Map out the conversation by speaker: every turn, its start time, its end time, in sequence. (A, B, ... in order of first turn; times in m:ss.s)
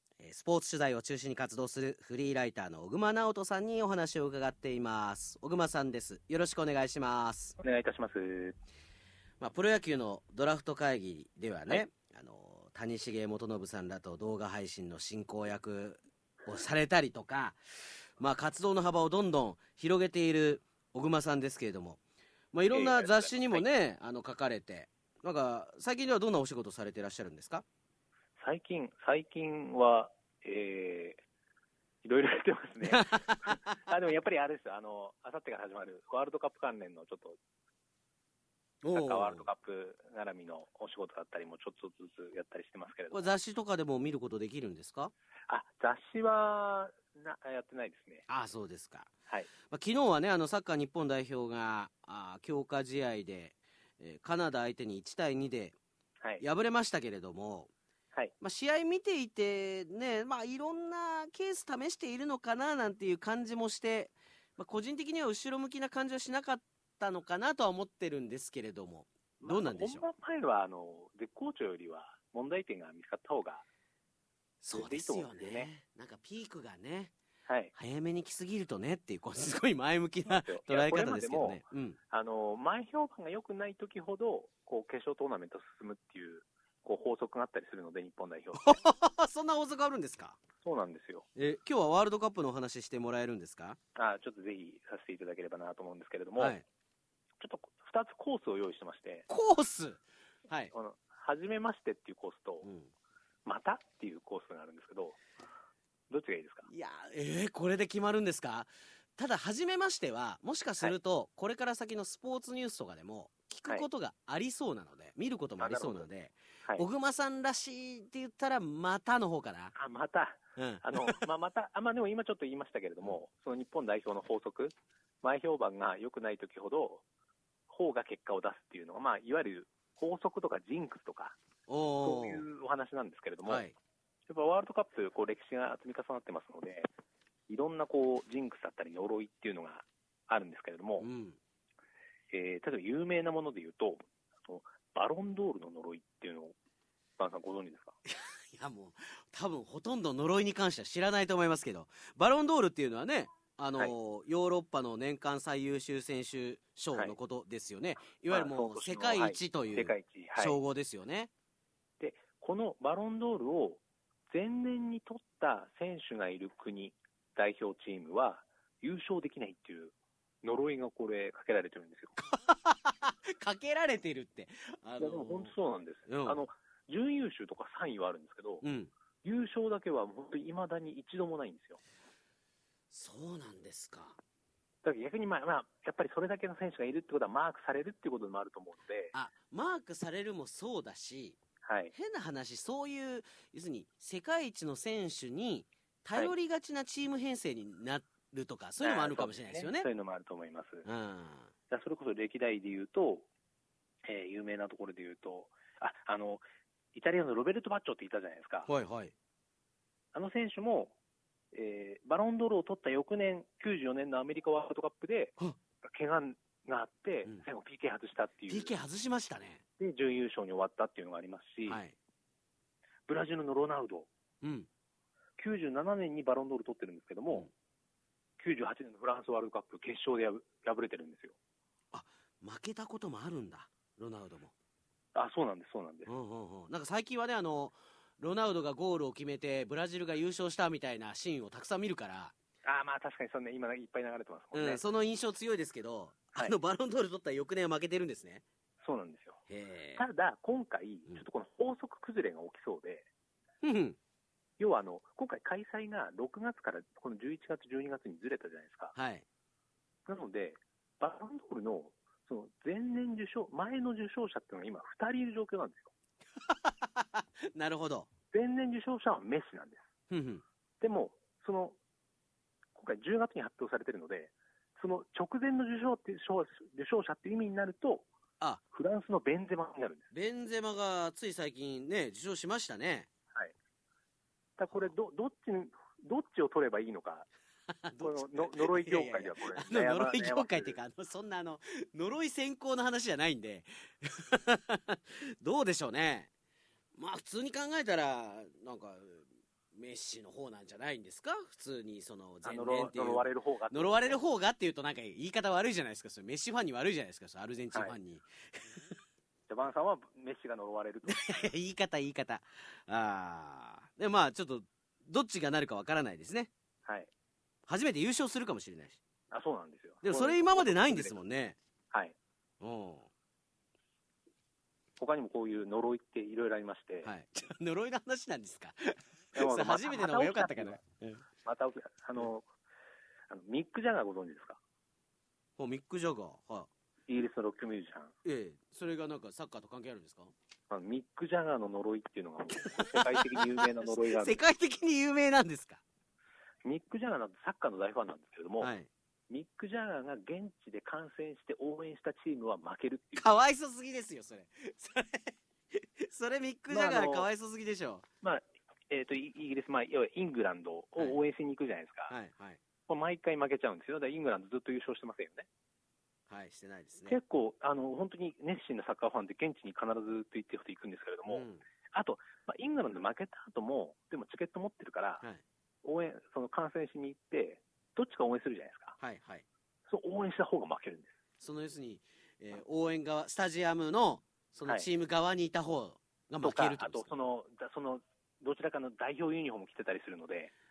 0:00.2-0:07.6 A
0:07.6-0:08.6 B
0:09.4-0:17.6 A
0:18.2-0:22.0 A
0:22.5-0:27.6 A
0:22.7-0:23.6 B
0:28.4-0:31.2 B
0:32.0-0:37.4 B
0:32.9-0:33.6 A
0:38.8-0:39.5 A
0:38.9-0:43.3 B
0:43.1-0:45.1 A
0:45.5-0:48.3 B
0:48.3-0:49.1 A
0:49.7-0:55.8 A
0:56.4-0:57.7 A
0:58.4-1:10.0 A
1:09.4-1:13.6 B
1:14.6-1:17.1 A
1:14.7-1:15.7 B
1:17.5-1:17.7 B
1:17.7-1:22.0 A
1:20.2-1:28.8 B
1:28.6-1:30.4 A
1:30.6-1:31.3 B
1:31.4-1:33.8 A
1:34.0-1:36.6 B
1:36.4-1:36.6 A
1:37.4-1:39.3 B
1:39.3-1:40.7 A
1:40.7-1:42.7 B
1:42.6-1:42.9 A
1:43.4-1:45.2 B
1:46.1-1:46.7 B
1:46.7-1:59.7 A
1:55.6-1:56.1 B
1:59.7-2:07.0 B
2:00.6-2:01.2 A
2:07.7-2:11.4 B
2:11.7-2:12.5 A
2:12.0-2:13.7 B
2:13.4-2:13.7 A
2:14.3-2:16.9 B
2:17.5-2:21.1 B
2:21.0-2:21.4 A
2:22.3-2:26.6 B
2:27.2-2:28.0 B
2:28.1-2:41.3 A
2:38.3-2:40.6 B
2:42.0-2:52.2 B
2:52.3-2:55.5 A
2:55.0-2:58.6 B
2:56.1-2:56.4 A
2:58.6-2:58.9 A
2:59.2-3:01.8 B
3:02.9-3:04.2 A
3:04.8-3:09.1 B
3:09.1-3:11.4 A
3:11.6-3:11.9 B
3:11.9-3:19.9 A
3:18.8-3:20.9 B
3:20.8-3:21.5 A
3:21.7-3:23.3 B
3:24.1-3:28.7 B
3:28.7-3:29.1 A
3:30.1-3:31.0 B
3:31.5-3:38.7 B
3:38.5-3:39.6 A
3:39.8-3:41.8 B
3:41.7-3:42.0 A
3:43.1-3:44.1 B
3:44.4-3:44.7 A
3:45.4-3:47.5 B
3:48.4-3:51.4 B
3:51.9-3:54.5 A
3:55.2-3:56.1 B
3:56.1-4:02.3 A
4:02.6-4:04.8 B
4:04.5-4:08.4 A
4:08.8-4:09.4 B
4:09.5-4:10.0 A
4:10.0-4:13.1 B
4:13.6-4:14.0 A
4:14.6-4:19.0 B
4:19.0-4:19.2 A
4:20.1-4:25.9 B
4:26.5-4:28.1 A
4:28.3-4:29.9 B
4:30.1-4:30.4 A
4:30.8-4:31.8 B
4:32.8-4:38.1 B
4:38.7-4:40.1 B
4:40.1-4:43.1 A
4:44.6-4:47.3 B
4:47.8-4:56.3 A
4:48.0-4:50.8 B
4:57.0-5:08.8 A
5:02.4-5:04.2 B
5:09.5-5:11.5 B
5:11.1-5:16.5 A
5:17.7-5:19.0 A
5:19.3-5:21.2 B
5:20.0-5:21.6 A
5:22.6-5:23.1 A
5:25.0-5:27.1 B
5:27.0-5:31.2 A
5:29.4-5:30.8 B
5:31.4-5:32.5 B
5:33.3-5:34.6 B
5:35.6-5:36.7 A
5:37.1-5:38.1 B
5:38.2-5:40.3 A
5:40.7-5:44.4 B
5:43.8-5:45.8 A
5:46.6-5:48.7 B
5:48.6-5:48.9 A
5:49.3-5:53.3 B
5:53.2-5:58.0 A
5:56.7-5:57.3 B
5:58.2-6:02.1 B
6:02.1-6:02.6 A
6:02.9-6:05.5 B
6:06.3-6:07.2 A
6:07.0-6:15.2 B
6:11.3-6:11.6 A
6:15.8-6:19.0 B
6:19.0-6:19.4 A
6:19.9-6:21.2 B
6:21.4-6:27.1 A
6:26.4-6:30.5 B